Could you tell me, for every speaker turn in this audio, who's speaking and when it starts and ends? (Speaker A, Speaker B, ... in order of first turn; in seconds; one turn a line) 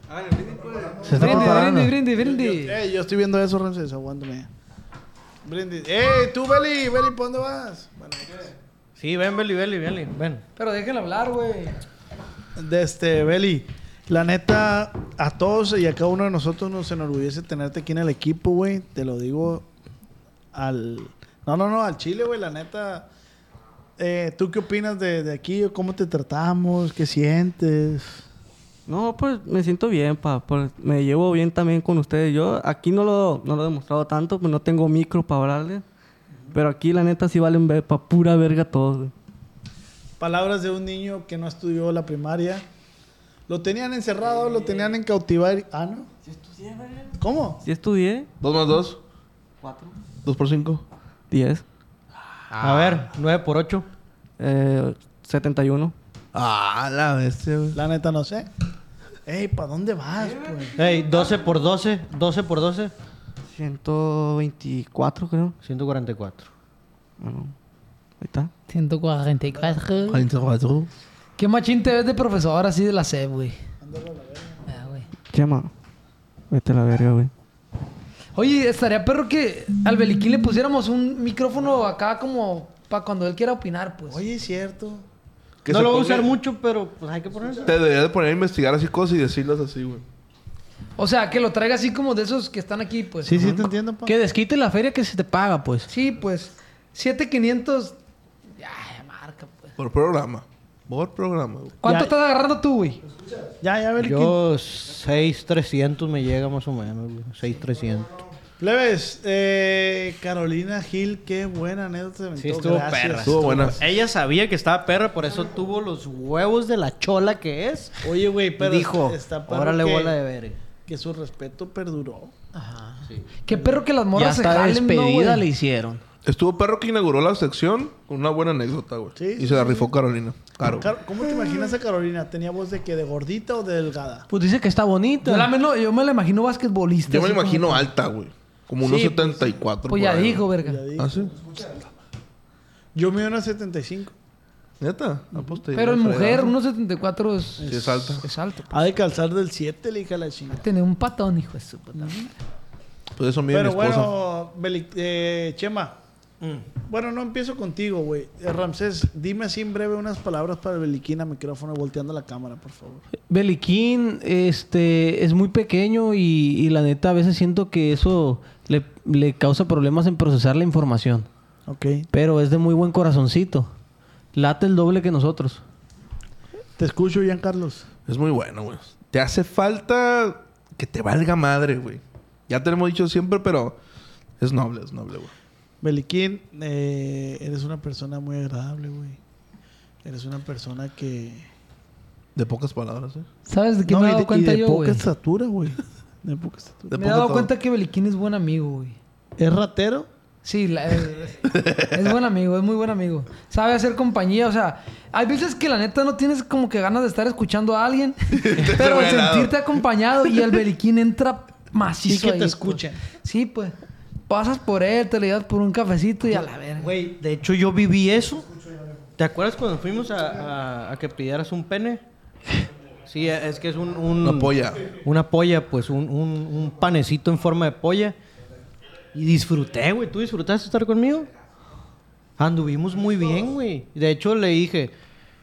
Speaker A: 0.6-4.5
Speaker B: 1.1-1.9
Speaker C: 1.1-2.8
Speaker A: 5.4-8.5
Speaker D: 9.0-10.4
Speaker C: 10.6-11.8
Speaker A: 12.6-19.7
Speaker A: 20.5-23.1
Speaker A: 24.0-28.2
Speaker E: 28.9-35.8
Speaker E: 36.5-39.1
Speaker A: 40.2-42.6
Speaker A: 43.5-46.1
Speaker E: 44.2-45.0
Speaker E: 46.2-48.3
Speaker A: 47.2-47.6
Speaker F: 48.4-49.0
Speaker E: 49.6-49.9
Speaker F: 50.2-50.8
Speaker E: 51.3-51.6
Speaker D: 52.6-53.9
Speaker E: 54.4-56.0
Speaker F: 56.3-57.8
Speaker A: 57.7-58.5
Speaker A: 59.3-60.8
Speaker D: 60.8-62.9
Speaker E: 63.5-65.5
Speaker D: 65.6-66.5
Speaker E: 67.2-67.5
Speaker E: 68.2-68.5
Speaker C: 68.7-70.2
Speaker A: 69.5-70.1
Speaker F: 70.1-70.9
Speaker C: 71.4-73.6
Speaker A: 73.8-74.7
Speaker C: 74.7-75.1
Speaker E: 75.3-75.7
Speaker E: 76.5-77.3
Speaker C: 78.4-84.2
Speaker A: 84.1-85.0
Speaker F: 85.6-86.3
Speaker D: 85.7-87.7
Speaker F: 87.6-90.0
Speaker C: 91.0-93.6
Speaker A: 93.2-94.2
Speaker B: 94.0-95.9
Speaker C: 95.9-98.0
Speaker C: 98.6-99.7
Speaker F: 99.8-101.8
Speaker C: 101.8-103.0
Speaker A: 101.8-102.1
Speaker A: 103.6-104.4
Speaker D: 104.0-108.1
Speaker A: 108.6-113.8
Speaker D: 112.4-118.0
Speaker F: 113.2-113.8
Speaker A: 118.0-120.2
Speaker D: 118.6-120.6
Speaker A: 120.8-122.3
Speaker C: 122.6-125.5
Speaker A: 123.5-123.8
Speaker B: 124.2-126.0
Speaker F: 126.2-130.9
Speaker A: 129.2-129.9
Speaker A: 130.7-134.3
Speaker B: 134.3-135.5
Speaker C: 135.2-137.9
Speaker F: 137.1-141.3
Speaker A: 138.8-139.6
Speaker C: 139.9-140.8
Speaker A: 140.6-141.8
Speaker A: 142.9-144.2
Speaker F: 144.8-146.5
Speaker C: 145.7-148.7
Speaker A: 147.6-148.1
Speaker F: 147.6-148.2
Speaker A: 148.7-150.7
Speaker C: 150.6-152.3
Speaker A: 152.0-152.3
Speaker F: 153.2-154.1
Speaker A: 153.5-156.0
Speaker A: 156.8-163.1
Speaker B: 163.3-171.3
Speaker A: 171.7-172.1
Speaker B: 172.1-173.7
Speaker B: 174.3-175.6
Speaker A: 176.8-177.9
Speaker F: 178.1-183.8
Speaker F: 184.4-185.3
Speaker A: 185.8-189.2
Speaker A: 190.0-191.5
Speaker F: 192.4-193.3
Speaker C: 193.5-195.0
Speaker A: 193.9-197.2
Speaker F: 196.9-197.5
Speaker C: 196.9-199.0
Speaker A: 199.4-200.1
Speaker C: 200.4-213.7
Speaker F: 201.5-202.0
Speaker F: 208.3-209.8
Speaker A: 212.1-213.0
Speaker C: 214.3-216.9
Speaker D: 216.8-218.5
Speaker D: 219.2-222.0
Speaker D: 223.1-228.2
Speaker F: 224.2-224.9
Speaker D: 229.1-231.3
Speaker D: 232.4-234.9